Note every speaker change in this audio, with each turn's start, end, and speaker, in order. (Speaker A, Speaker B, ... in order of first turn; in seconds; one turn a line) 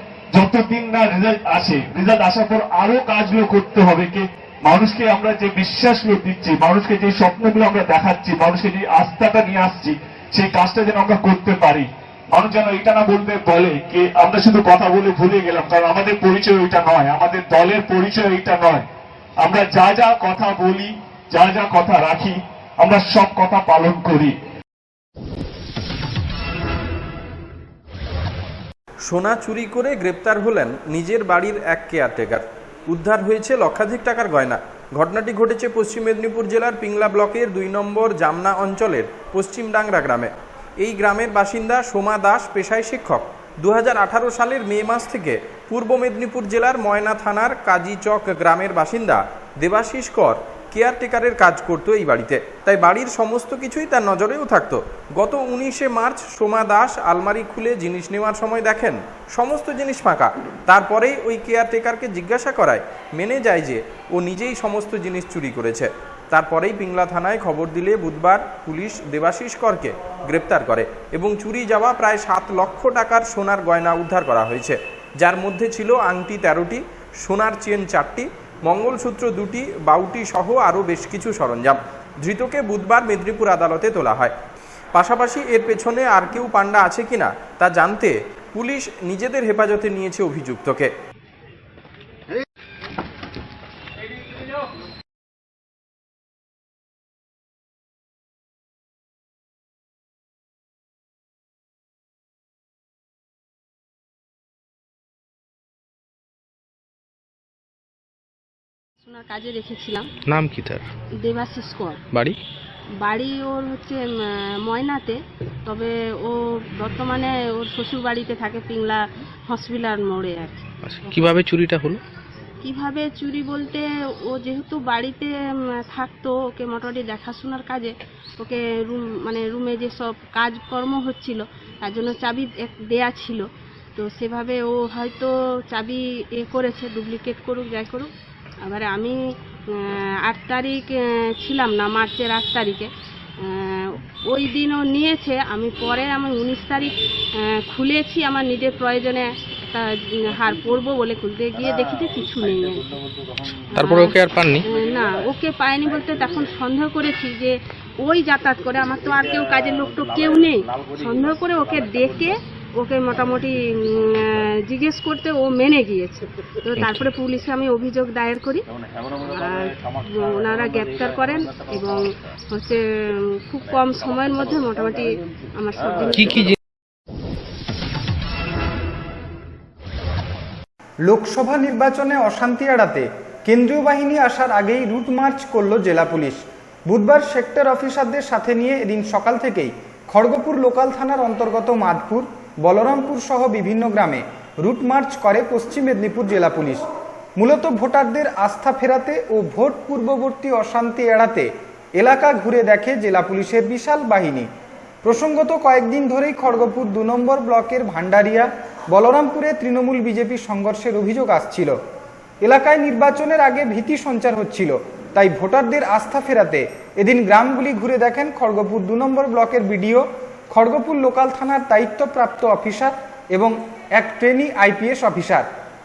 Speaker A: 0.3-18.9
Speaker A: 19.4-24.3
Speaker B: 29.1-84.3
Speaker B: 84.9-90.9
Speaker C: 109.0-110.1
Speaker D: 110.3-110.9
Speaker C: 111.2-112.0
Speaker D: 112.1-112.4
Speaker C: 113.0-120.6
Speaker D: 120.8-122.0
Speaker C: 122.6-133.4
Speaker C: 134.0-138.1
Speaker C: 138.7-139.2
Speaker C: 139.7-142.9
Speaker C: 143.4-152.8
Speaker C: 153.7-168.6
Speaker D: 153.8-154.6
Speaker C: 169.2-176.6
Speaker D: 176.2-176.5
Speaker E: 181.0-196.8
Speaker E: 197.4-204.5
Speaker E: 205.0-211.8
Speaker E: 212.4-225.5